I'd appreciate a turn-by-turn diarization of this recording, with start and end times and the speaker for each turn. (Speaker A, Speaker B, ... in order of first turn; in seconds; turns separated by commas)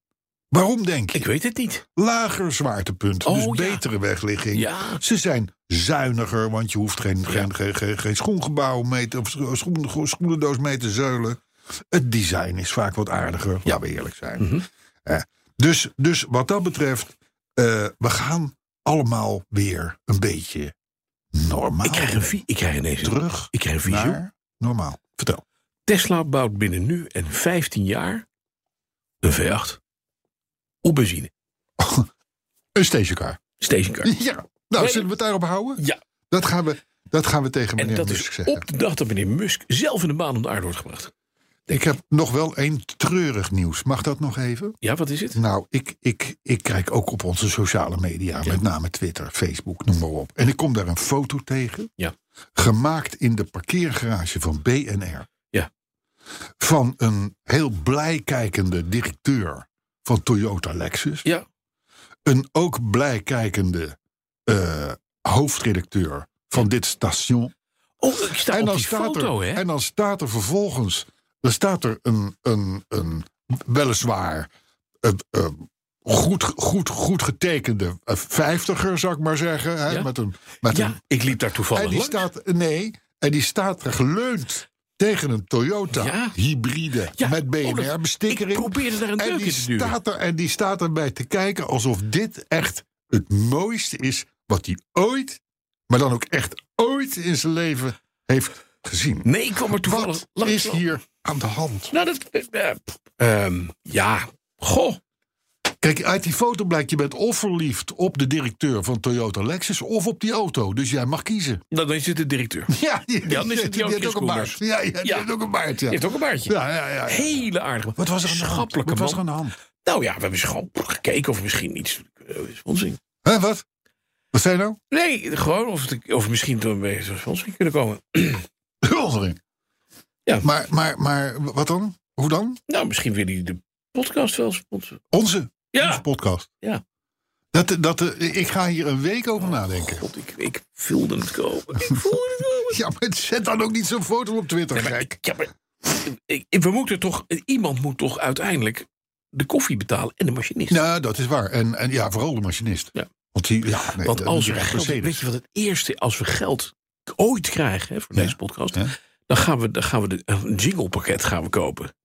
Speaker A: 0.5-1.3, Speaker B: 1.1-1.8, Speaker A: 2.0-20.7, Speaker B: 3.2-3.8, Speaker B: 4.5-5.0, Speaker B: 14.4-14.7, Speaker A: 21.3-22.3, Speaker B: 21.8-24.2, Speaker A: 23.0-25.4, Speaker B: 25.9-28.3, Speaker B: 29.2-29.8, Speaker B: 30.8-31.3, Speaker A: 31.8-32.1, Speaker A: 32.8-33.4, Speaker B: 33.6-34.1, Speaker A: 34.0-38.6, Speaker B: 34.8-35.1, Speaker B: 37.8-41.1, Speaker A: 41.7-44.8, Speaker B: 44.8-45.4, Speaker A: 45.4-51.9, Speaker A: 52.5-55.3, Speaker A: 56.6-61.2, Speaker A: 62.3-67.5, Speaker B: 68.0-69.7, Speaker A: 68.5-74.5, Speaker A: 75.0-81.0, Speaker B: 80.7-82.3, Speaker A: 81.7-101.9, Speaker B: 85.9-86.3, Speaker B: 87.1-90.0, Speaker B: 99.2-100.8, Speaker B: 101.9-105.0, Speaker A: 105.8-111.6, Speaker B: 111.7-112.7, Speaker A: 112.7-119.5, Speaker B: 113.3-115.3, Speaker B: 115.9-119.2, Speaker B: 119.8-123.0, Speaker A: 123.2-123.6, Speaker A: 124.3-124.8, Speaker B: 124.9-128.5, Speaker A: 128.8-129.4, Speaker A: 130.4-132.6, Speaker B: 132.7-135.0, Speaker A: 135.1-136.5, Speaker B: 135.7-136.0, Speaker A: 137.5-140.1, Speaker B: 139.4-142.8, Speaker A: 141.8-145.2, Speaker B: 144.7-150.8, Speaker A: 150.7-155.2, Speaker B: 154.0-161.9, Speaker A: 158.2-158.9